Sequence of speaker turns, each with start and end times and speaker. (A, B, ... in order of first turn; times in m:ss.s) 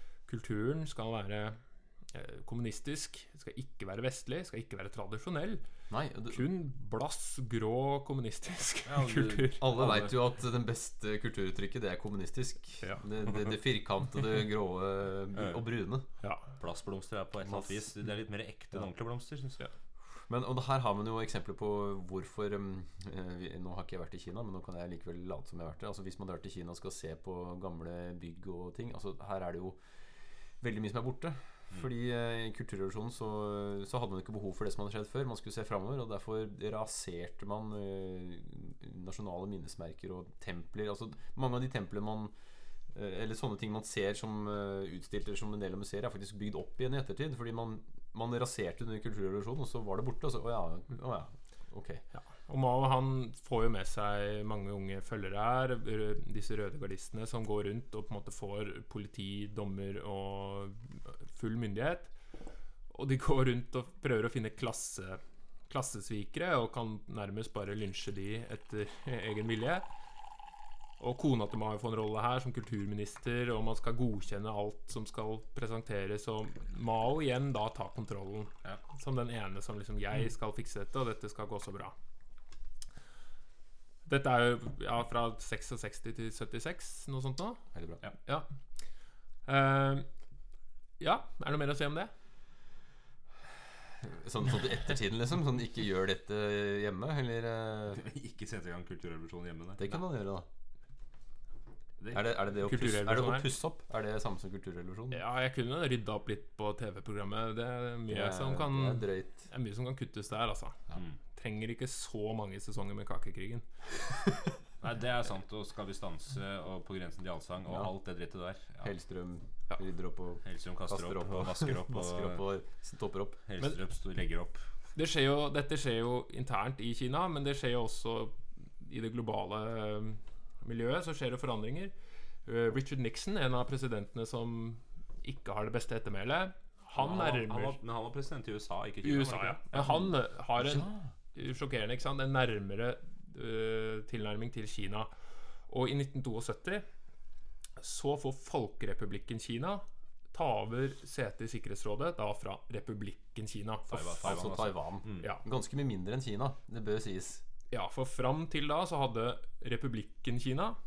0:00.3-0:01.6 A
0:02.1-0:05.6 A
0:05.9-0:06.4 B
0:06.3-0:09.7 A
0:08.9-0:10.1 C
0:09.6-0:16.1 B
0:16.2-0:16.5 A
0:16.6-0:19.6 C
0:20.3-0:29.8 B
0:30.6-0:42.3 B
0:42.9-0:52.0 B
0:52.1-1:02.1 A
1:02.9-1:09.8 A
1:11.0-1:21.9 A
1:24.1-1:27.6 A
1:27.7-1:28.0 B
1:29.4-1:30.1 A
1:31.0-1:32.1 A
1:34.0-1:38.0 B
1:38.0-1:40.0 C
1:39.8-1:40.5 B
1:42.1-1:45.2 B
1:42.6-1:43.5 A
1:45.1-1:54.2 A
1:48.1-1:49.4 B
1:54.8-1:58.9 C
1:58.8-2:03.4 B
2:00.4-2:02.4 C
2:03.5-2:04.7 C
2:05.0-2:11.9 A
2:12.4-2:17.8 A
2:17.0-2:19.9 C
2:19.0-2:25.1 A
2:20.6-2:21.1 B
2:25.7-2:26.9 A
2:27.8-2:34.4 A
2:33.9-2:35.3 C
2:34.1-2:37.4 B
2:37.7-2:40.8 A